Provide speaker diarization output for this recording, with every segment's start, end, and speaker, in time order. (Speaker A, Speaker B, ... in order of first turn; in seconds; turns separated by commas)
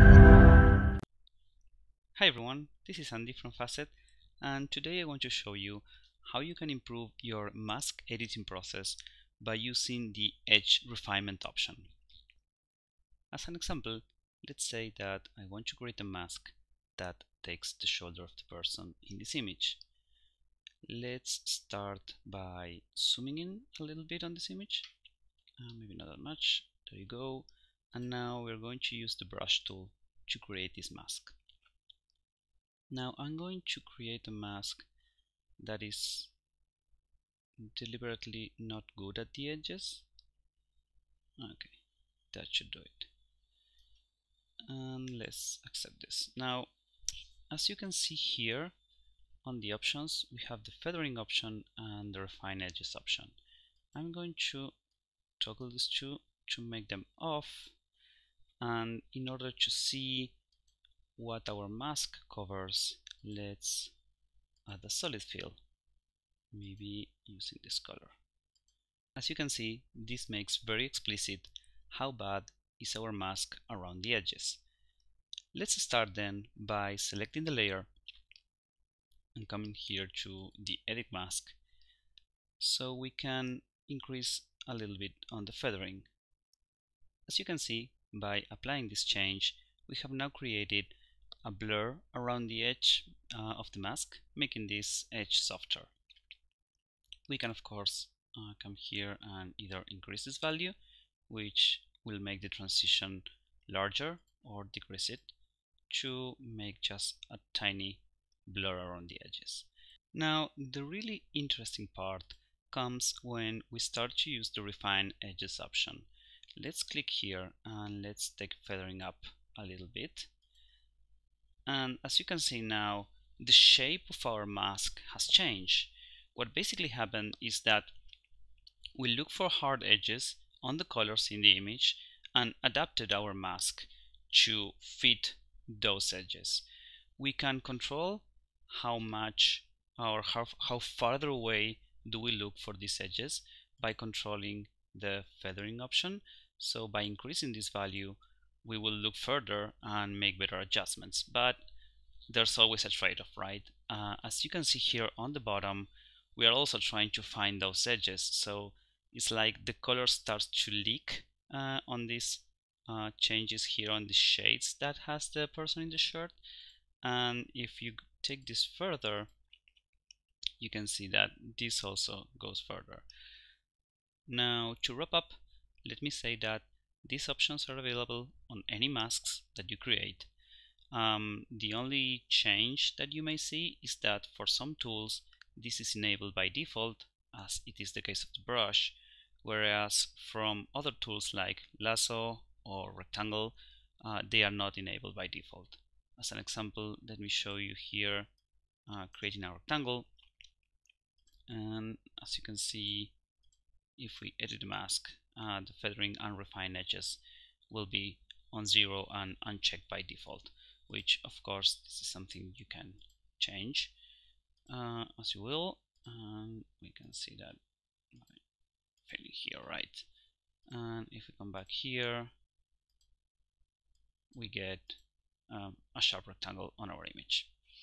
Speaker A: 2.2-11.9, Speaker A: 13.3-19.8, Speaker A: 20.9-24.9, Speaker A: 25.6-31.4, Speaker A: 32.9-34.9, Speaker A: 35.6-36.3, Speaker A: 37.6-40.0, Speaker A: 41.4-41.8, Speaker A: 42.3-43.1, Speaker A: 44.7-46.7, Speaker A: 47.5-48.8, Speaker A: 49.5-53.4, Speaker A: 54.0-54.8, Speaker A: 55.4-57.8, Speaker A: 58.6-60.4, Speaker A: 61.2-63.9, Speaker A: 64.7-65.6, Speaker A: 66.5-68.2, Speaker A: 69.2-74.6, Speaker A: 75.5-77.9, Speaker A: 79.3-81.6, Speaker A: 82.6-86.1, Speaker A: 87.3-90.9, Speaker A: 91.5-95.9, Speaker A: 97.3-100.8, Speaker A: 101.3-105.3, Speaker A: 105.9-120.3, Speaker A: 121.7-127.9, Speaker A: 128.9-136.6, Speaker A: 137.2-151.6, Speaker A: 152.3-166.4, Speaker A: 167.0-169.3, Speaker A: 170.6-173.1, Speaker A: 174.3-180.3, Speaker A: 180.9-198.3, Speaker A: 198.9-200.1, Speaker A: 201.5-203.1, Speaker A: 204.0-213.9, Speaker A: 214.7-217.6, Speaker A: 218.1-218.4, Speaker A: 219.1-220.1, Speaker A: 220.7-222.3, Speaker A: 224.3-227.5